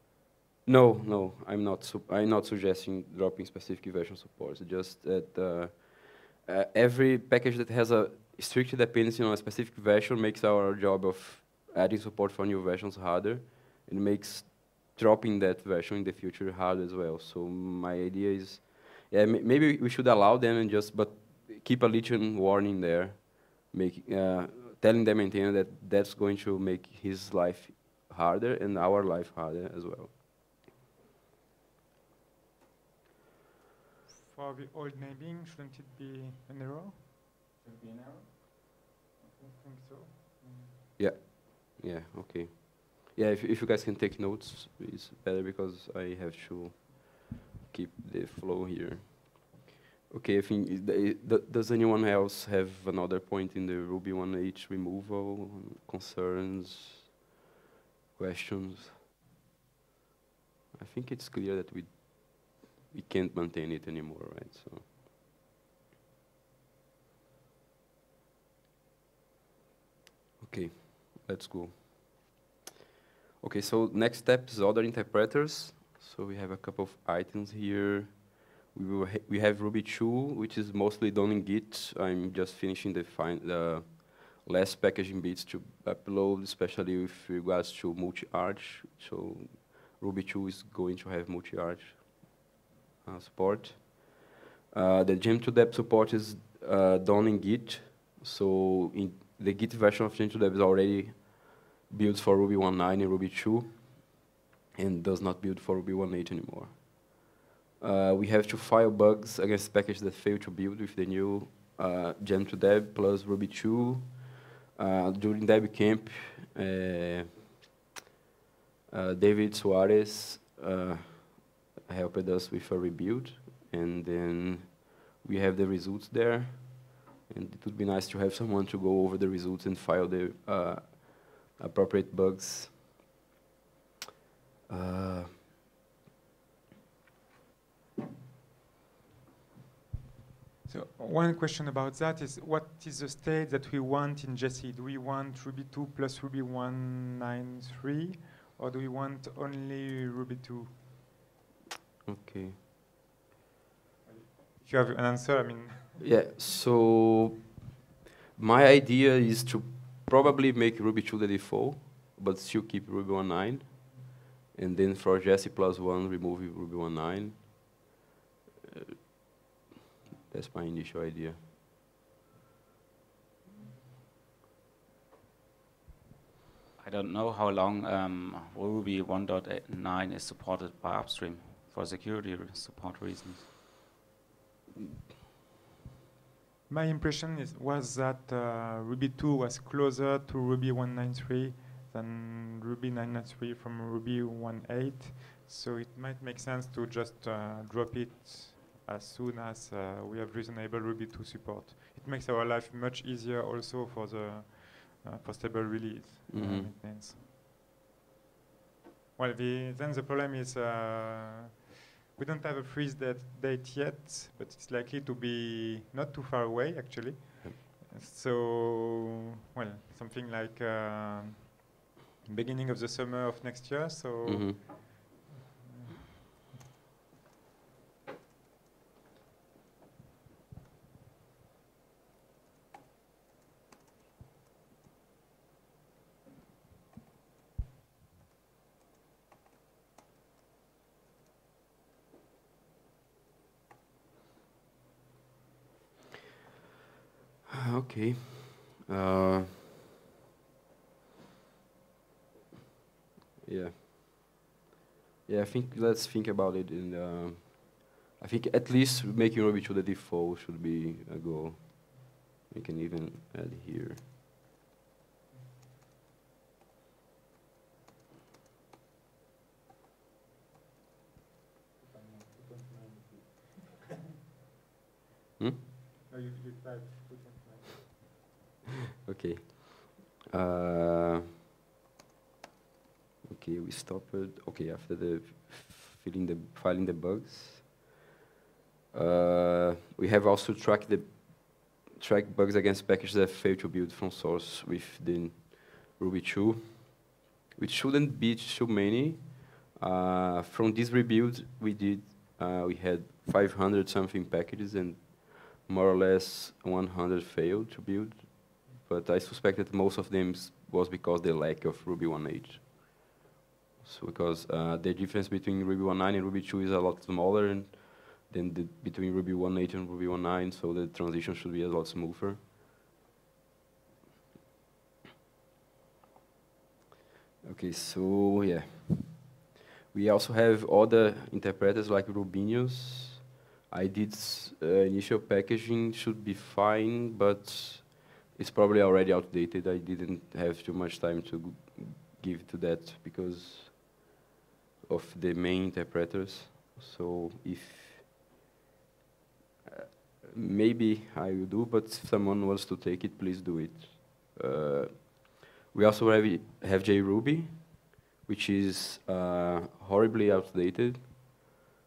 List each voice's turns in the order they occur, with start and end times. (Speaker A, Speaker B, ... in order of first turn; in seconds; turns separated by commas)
Speaker A: 0.6-30.1, Speaker B: 34.3-37.0, Speaker B: 39.2-40.8, Speaker A: 41.0-57.1, Speaker A: 58.1-59.0, Speaker A: 60.7-64.9, Speaker A: 70.4-72.4, Speaker A: 73.4-92.4, Speaker A: 93.0-107.3, Speaker A: 107.8-117.4, Speaker A: 118.9-132.8, Speaker A: 134.7-135.3, Speaker B: 140.7-150.8, Speaker A: 152.1-152.6, Speaker B: 154.1-156.0, Speaker A: 156.0-157.6, Speaker A: 158.3-167.8, Speaker A: 170.2-171.4, Speaker C: 176.8-183.5, Speaker B: 186.7-207.2, Speaker A: 206.3-206.7, Speaker B: 209.2-211.6, Speaker B: 212.1-221.7, Speaker B: 222.2-225.1, Speaker A: 224.2-224.6, Speaker B: 225.6-226.0, Speaker A: 247.5-249.7, Speaker A: 253.4-254.4, Speaker A: 255.3-264.0, Speaker B: 271.8-273.9, Speaker B: 276.1-278.2, Speaker A: 279.0-281.3, Speaker A: 283.3-287.8, Speaker A: 288.9-313.1, Speaker A: 313.8-322.4, Speaker A: 327.4-344.0, Speaker A: 344.9-348.1, Speaker A: 349.7-361.4